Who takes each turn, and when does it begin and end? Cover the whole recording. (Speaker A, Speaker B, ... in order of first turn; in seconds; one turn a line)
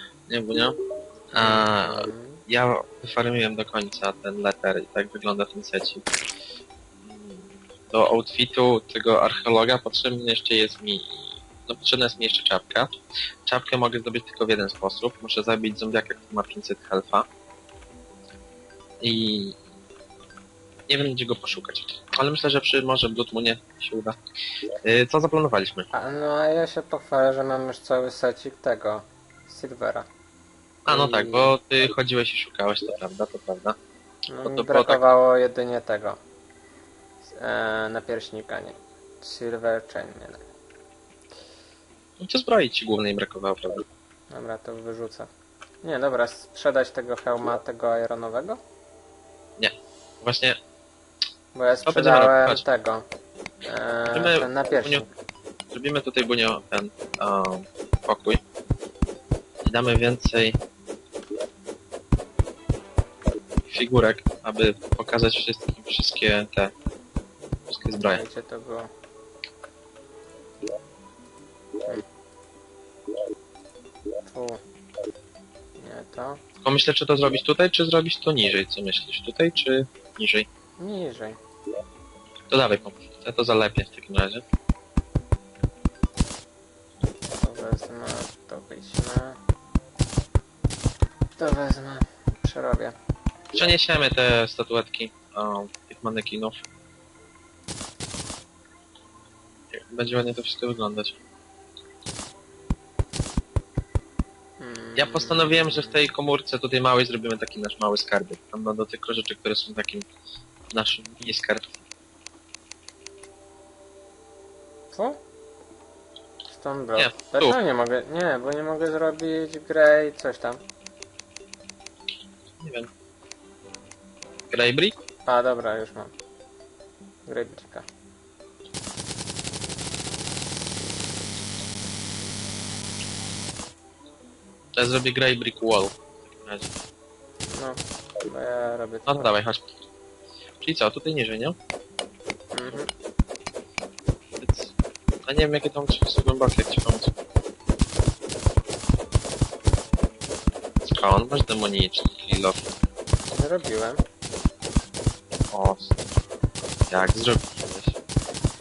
Speaker A: 0.3-0.8
Speaker A: 1.3-6.0
Speaker B: 1.4-2.4
Speaker A: 7.0-12.9
Speaker A: 13.4-17.3
Speaker A: 19.0-19.6
Speaker A: 20.9-24.2
Speaker A: 24.8-25.9
Speaker B: 25.9-30.1
Speaker A: 30.8-33.8
Speaker B: 30.9-31.5
Speaker B: 34.3-36.2
Speaker A: 34.4-35.0
Speaker B: 37.2-40.4
Speaker A: 42.2-43.9
Speaker B: 44.3-45.3
Speaker B: 45.8-48.6
Speaker A: 49.6-50.6
Speaker B: 51.5-53.0
Speaker A: 51.8-52.6
Speaker B: 53.6-55.1
Speaker A: 54.1-55.0
Speaker A: 55.7-58.4
Speaker A: 59.6-60.6
Speaker A: 63.7-66.7
Speaker A: 67.7-68.2
Speaker B: 68.1-68.9
Speaker B: 74.2-74.6
Speaker B: 75.8-76.4
Speaker A: 76.6-80.5
Speaker B: 80.8-81.4
Speaker A: 82.5-84.4
Speaker B: 87.3-89.4
Speaker B: 91.4-93.0
Speaker A: 93.5-96.6
Speaker A: 99.7-101.2
Speaker B: 104.6-106.0
Speaker A: 105.0-110.0
Speaker A: 110.7-111.8
Speaker B: 114.9-115.2
Speaker B: 116.5-120.6
Speaker A: 117.0-117.6
Speaker A: 122.6-122.9
Speaker A: 124.5-125.0
Speaker B: 125.2-126.1
Speaker B: 127.2-127.9
Speaker A: 134.8-136.7
Speaker B: 137.5-139.3
Speaker A: 139.1-139.6
Speaker A: 140.6-141.6
Speaker B: 142.5-142.9
Speaker A: 144.4-144.7
Speaker A: 145.2-147.1
Speaker A: 150.8-152.7
Speaker B: 153.3-154.0
Speaker A: 155.5-156.0
Speaker A: 156.9-158.0